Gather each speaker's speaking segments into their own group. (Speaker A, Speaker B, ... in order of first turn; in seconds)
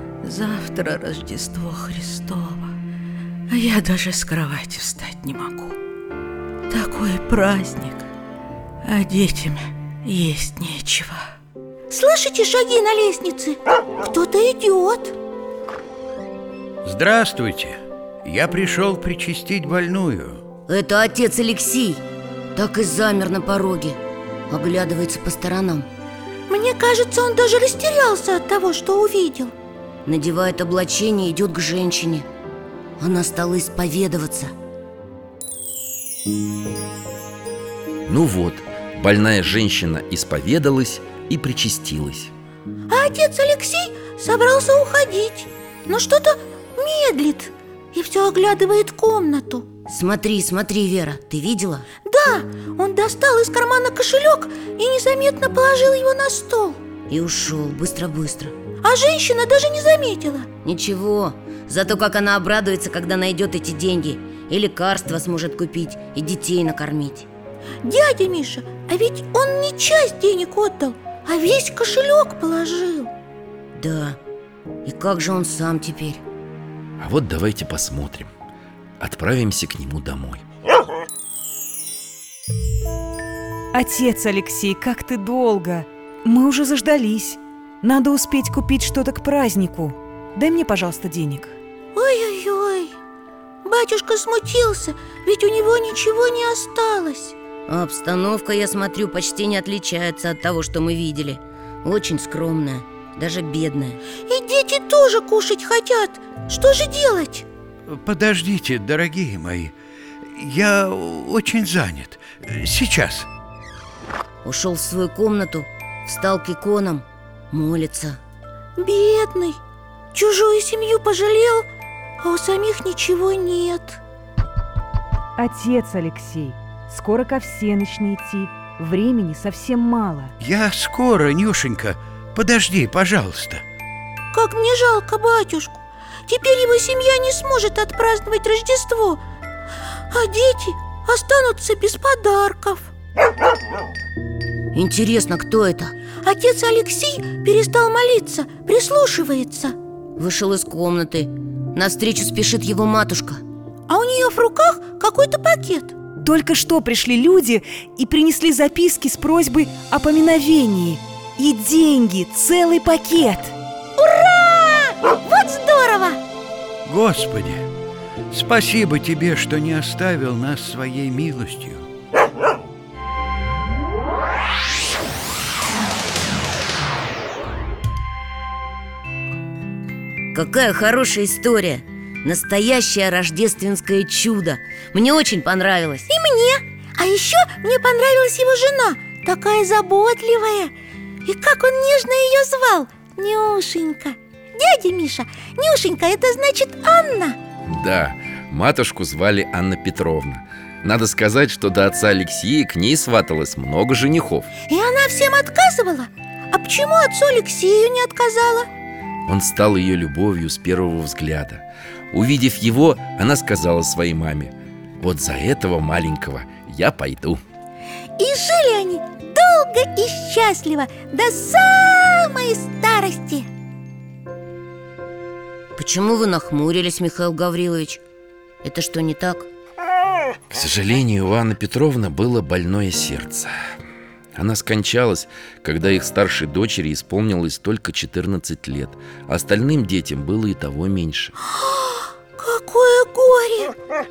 Speaker A: 0.2-2.7, 3.5-5.8, 6.7-8.1, 8.8-11.3
Speaker B: 11.9-15.1, 26.5-29.5, 42.9-49.7, 52.0-56.8, 58.8-60.5, 67.8-73.1, 92.0-93.0, 93.7-97.4, 104.3-107.5, 118.8-119.6, 120.1-121.7, 122.2-124.0, 134.3-139.2, 140.1-142.9, 146.2-149.8, 153.9-155.9, 164.0-166.2, 186.1-190.7, 191.2-197.4, 204.7-208.7, 218.2-223.5, 241.4-243.8
Speaker C: 16.8-20.4, 107.9-109.7, 110.3-113.3, 130.4-133.6, 166.8-167.7, 168.3-171.9
Speaker D: 20.7-22.0, 22.6-24.0, 24.5-25.9, 30.1-32.3, 33.0-34.5, 49.9-51.9, 57.1-58.5, 60.6-67.3, 73.8-74.2, 74.8-76.2, 97.7-104.0, 114.4-118.2, 144.7-145.9, 150.2-153.4, 180.3-186.1, 225.8-228.0, 228.6-229.5
Speaker E: 38.1-42.3, 77.0-78.3, 79.0-80.4, 197.7-204.5, 209.3-217.4, 230.5-233.5, 234.3-241.3
Speaker F: 83.7-91.5, 125.4-130.3, 156.2-163.6